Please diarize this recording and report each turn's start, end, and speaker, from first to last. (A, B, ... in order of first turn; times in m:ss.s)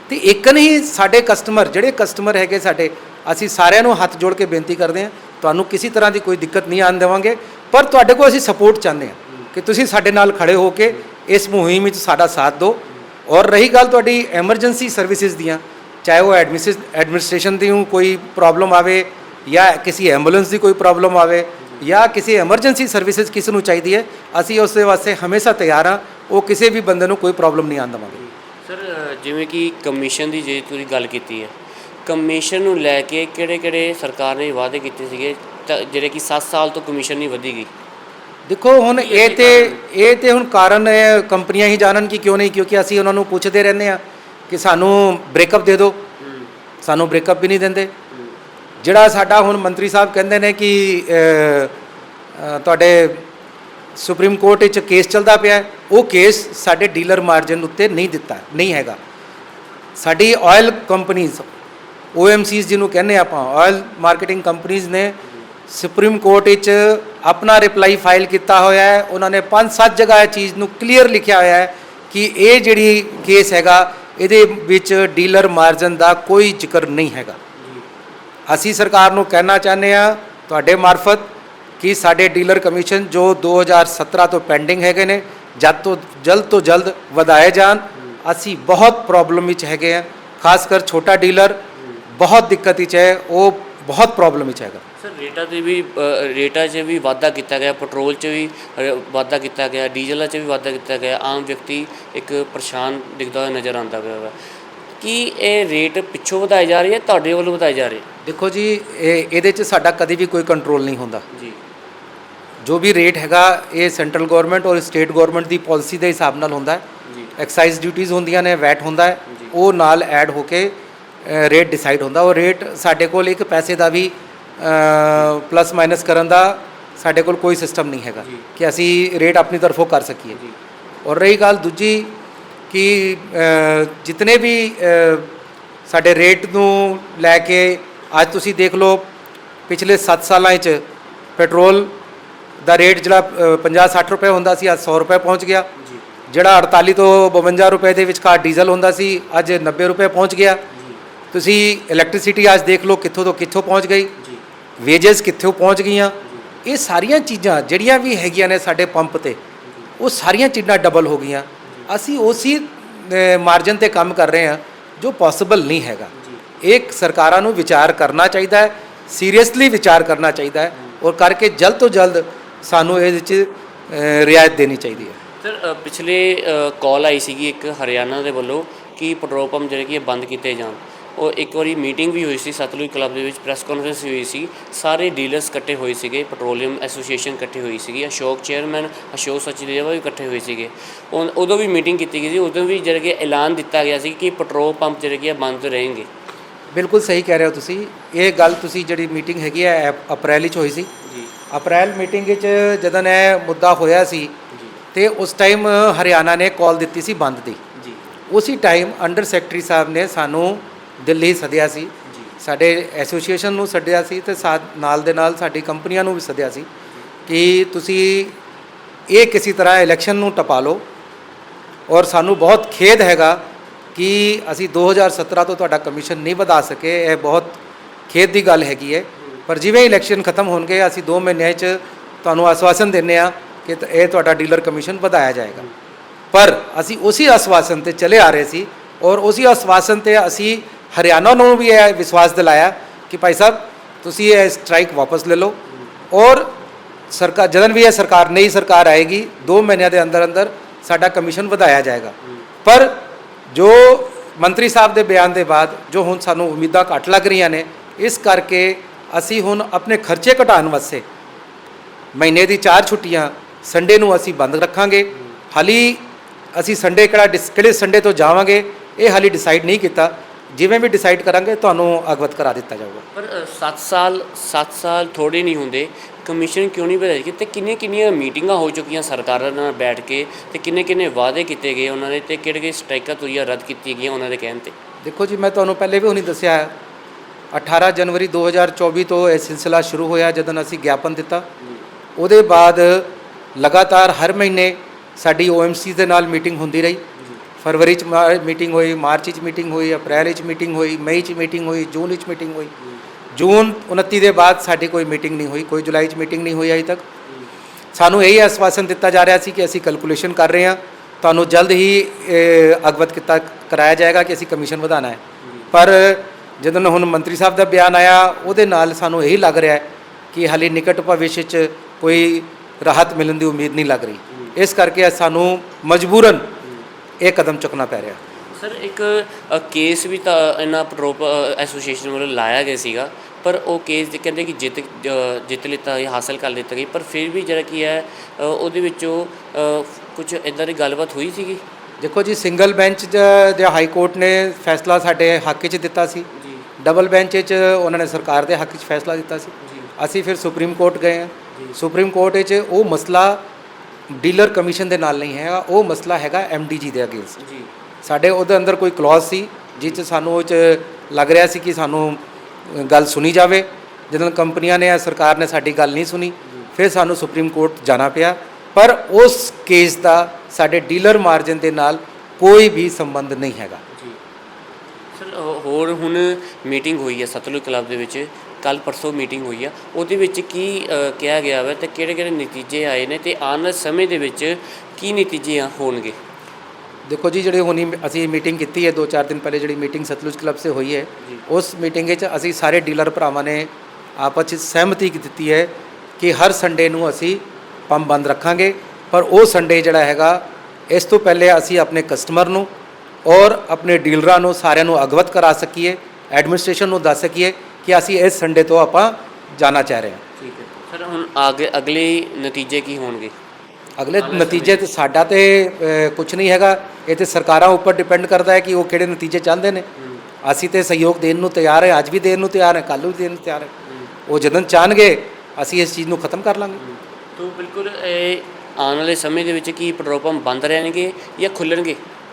0:00.1-0:28.2 A
0:28.1-0:31.5 B
0:32.0-0:37.7 B
0:38.5-0:46.0 A
0:38.9-0:39.8 B
0:46.2-0:46.5 B
0:46.8-0:47.9 A
0:48.8-0:51.7 A
0:52.3-0:53.2 A
0:54.0-0:59.0 A
1:00.0-1:01.4 A
1:02.1-1:05.2 A
1:05.7-1:17.4 A
1:17.6-1:17.8 B
1:18.5-1:21.3 A
1:21.8-1:34.8 A
1:35.0-1:44.3 B
1:45.0-1:48.0 B
1:48.2-1:51.2 A
1:51.3-1:51.6 B
1:52.6-1:56.8 A
1:57.0-1:57.3 B
1:57.4-2:10.4 A
1:59.3-1:59.5 B
2:11.0-2:12.2 A
2:12.7-2:15.3 A
2:15.9-2:19.1 A
2:19.7-2:20.8 A
2:21.4-2:21.9 A
2:22.6-2:25.7 A
2:26.3-2:30.6 A
2:30.7-2:31.0 B
2:31.3-2:34.1 A
2:34.8-2:39.4 A
2:39.6-2:39.9 B
2:40.0-2:55.2 A
2:46.2-2:46.4 B
2:55.4-3:16.1 B
3:16.7-3:20.9 A
3:21.0-3:21.3 B
3:21.5-3:24.3 A
3:24.9-3:27.6 A
3:27.8-3:28.0 B
3:28.3-3:36.7 A
3:37.3-3:38.3 A
3:39.1-3:40.8 A
3:41.9-3:43.4 A
3:43.9-3:47.6 A
3:48.1-3:55.7 A
3:56.3-4:05.6 A
4:06.1-4:06.5 A
4:07.1-4:12.1 A
4:12.6-4:13.0 A
4:13.5-4:21.0 A
4:22.1-4:26.0 A
4:26.5-4:33.0 A
4:33.1-4:44.7 B
4:45.0-4:46.7 A
4:47.5-4:51.4 A
4:52.2-4:57.0 A
4:57.6-5:02.7 A
5:03.3-5:07.0 A
5:07.9-5:15.2 A
5:15.4-5:15.7 B
5:15.7-5:26.5 A
5:27.2-5:28.2 A
5:28.5-5:41.6 B
5:42.0-5:46.3 A
5:46.3-5:46.6 B
5:46.8-5:53.4 A
5:49.6-5:49.9 B
5:54.1-5:57.4 A
5:57.4-5:57.7 B
5:58.0-6:13.8 A
6:15.1-6:26.2 B
6:27.0-6:42.7 A
6:43.2-6:50.2 A
6:50.4-6:53.3 B
6:54.0-6:59.8 A
6:54.2-6:54.9 B
7:00.0-7:00.2 B
7:00.4-7:03.7 A
7:04.3-7:06.8 A
7:06.8-7:12.0 B